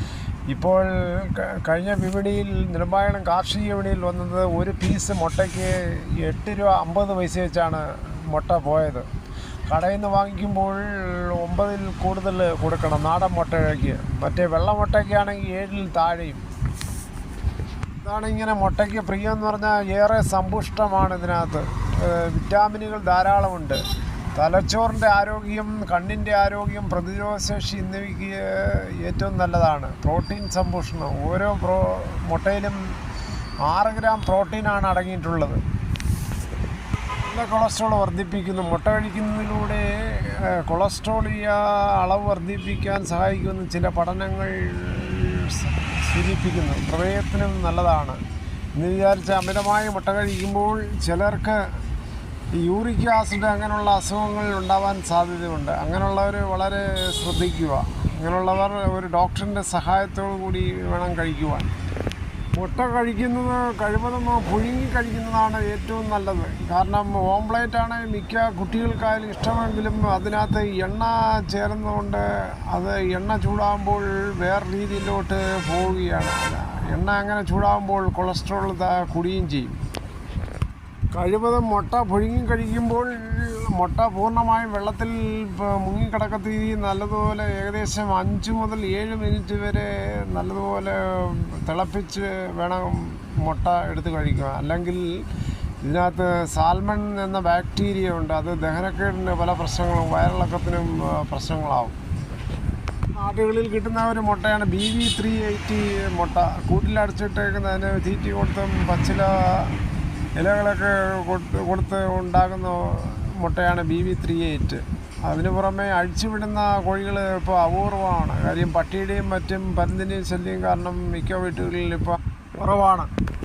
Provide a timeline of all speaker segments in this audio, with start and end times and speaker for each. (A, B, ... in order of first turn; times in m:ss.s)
0:00.5-0:09.1 A
0:09.7-0:16.4 A
0:18.0-0:23.8 A
0:24.4-0:32.8 A
0:33.6-0:35.6 A
0:37.2-0:48.2 A
0:48.8-0:51.6 A
0:52.6-1:01.7 A
1:02.6-1:19.8 A
1:21.1-1:35.1 A
1:35.8-1:42.0 A
1:43.2-1:49.8 A
1:50.4-2:03.1 A